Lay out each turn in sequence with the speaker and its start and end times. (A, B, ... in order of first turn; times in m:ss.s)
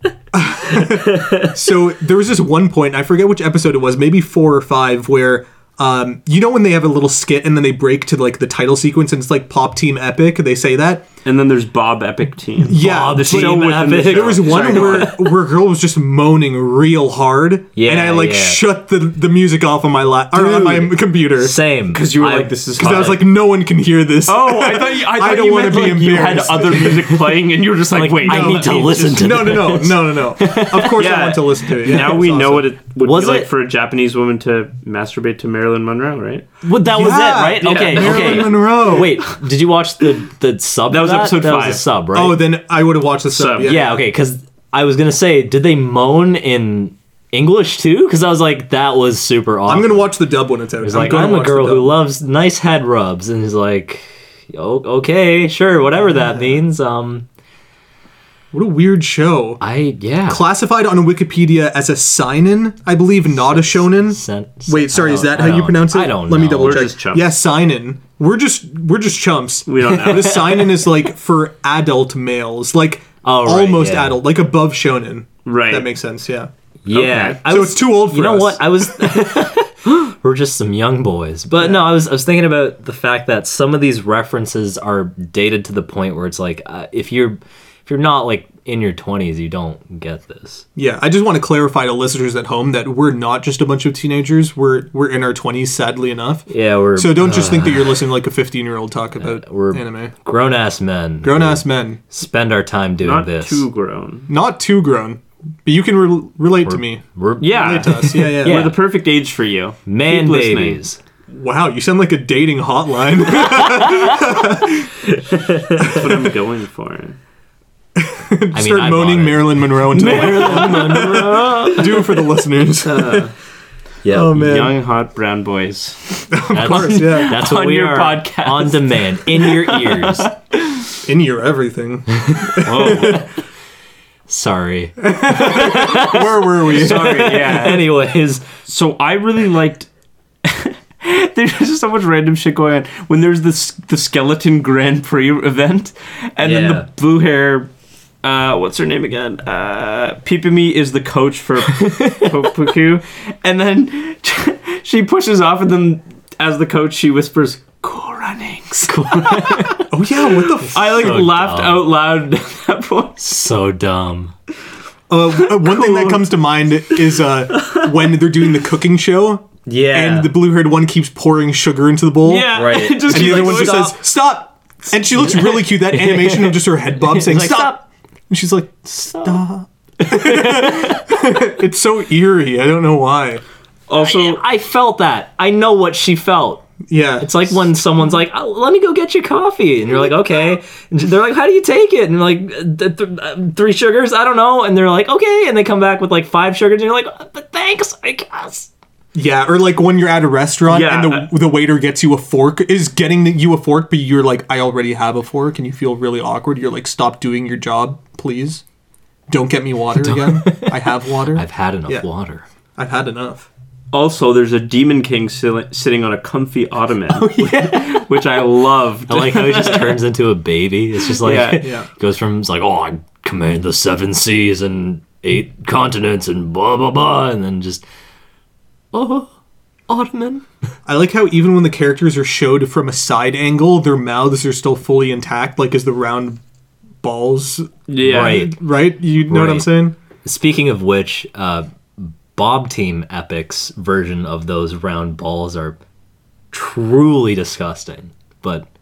0:00.3-0:11.1 A
0:00.6-0:01.6 B
0:11.2-0:15.1 C
0:12.6-0:21.6 A
0:12.7-0:15.4 B
0:17.7-0:18.6 B
0:20.3-0:23.2 B
0:21.9-0:23.2 C
0:22.8-0:27.1 A
0:24.3-0:29.3 C
0:27.9-0:31.2 B
0:28.3-0:32.6 A
0:30.9-0:36.5 C
0:31.8-0:32.2 B
0:33.0-0:33.5 B
0:36.6-0:42.4 B
0:36.8-0:39.2 A
0:37.4-0:38.7 C
0:40.9-0:41.9 C
0:42.1-0:44.0 A
0:43.3-0:43.7 C
0:43.6-0:50.1 B
0:49.7-0:51.9 A
0:50.8-0:57.2 B
0:56.0-0:56.6 A
0:58.5-0:59.6 A
0:59.6-1:00.4 B
1:00.3-1:16.5 A
1:03.3-1:06.9 B
1:06.6-1:07.3 C
1:09.6-1:10.4 C
1:09.9-1:11.0 B
1:13.2-1:14.2 B
1:15.4-1:15.9 C
1:16.8-1:30.6 B
1:16.9-1:17.4 C
1:17.4-1:19.1 A
1:30.8-1:40.1 A
1:36.5-1:38.0 B
1:39.2-1:43.6 B
1:41.2-1:42.0 A
1:43.0-1:44.3 C
1:44.3-1:48.7 A
1:46.6-1:48.7 B
1:47.4-1:50.8 C
1:49.9-1:51.0 B
1:51.3-1:55.0 A
1:53.4-1:54.4 B
1:55.2-1:56.1 B
1:55.7-1:57.2 C
1:58.0-2:03.3 A
1:58.5-2:02.2 B
2:00.0-2:01.2 C
2:02.8-2:03.3 C
2:04.0-2:04.6 B
2:04.1-2:04.7 A
2:04.3-2:10.3 C
2:06.3-2:07.4 A
2:06.5-2:10.3 B
2:11.0-2:13.2 A
2:12.2-2:13.2 B
2:12.6-2:13.3 C
2:14.3-2:18.4 B
2:15.0-2:17.6 A
2:16.7-2:17.9 C
2:18.7-2:19.9 C
2:20.4-2:27.7 C
2:26.4-2:26.9 B
2:28.2-2:39.9 C
2:31.7-2:32.3 B
2:38.9-2:39.8 B
2:39.9-2:41.1 A
2:40.6-2:43.2 C
2:40.7-2:41.9 B
2:43.2-2:44.3 B
2:45.1-3:03.4 A
2:45.4-2:46.2 C
2:47.5-2:48.1 C
2:49.6-2:50.3 B
2:52.2-2:53.9 C
2:52.5-2:53.9 B
2:55.1-2:57.8 B
3:00.0-3:01.4 B
3:03.9-3:04.4 C
3:04.0-3:06.7 B
3:06.9-3:07.7 A
3:07.2-3:18.7 B
3:19.1-3:28.6 A
3:20.7-3:21.3 C
3:29.3-3:32.1 A
3:30.0-3:32.4 B
3:32.8-3:33.5 A
3:33.9-3:40.0 C
3:37.1-3:37.8 A
3:39.1-3:47.8 B
3:41.2-3:41.7 C
3:41.6-3:41.9 A
3:48.9-3:49.3 B
3:49.9-3:50.4 B
3:50.9-3:56.4 A
3:57.0-3:59.9 A
3:57.9-3:58.5 C
3:58.0-3:58.6 B
3:59.3-3:59.7 B
4:00.2-4:05.8 B
4:06.5-4:08.7 B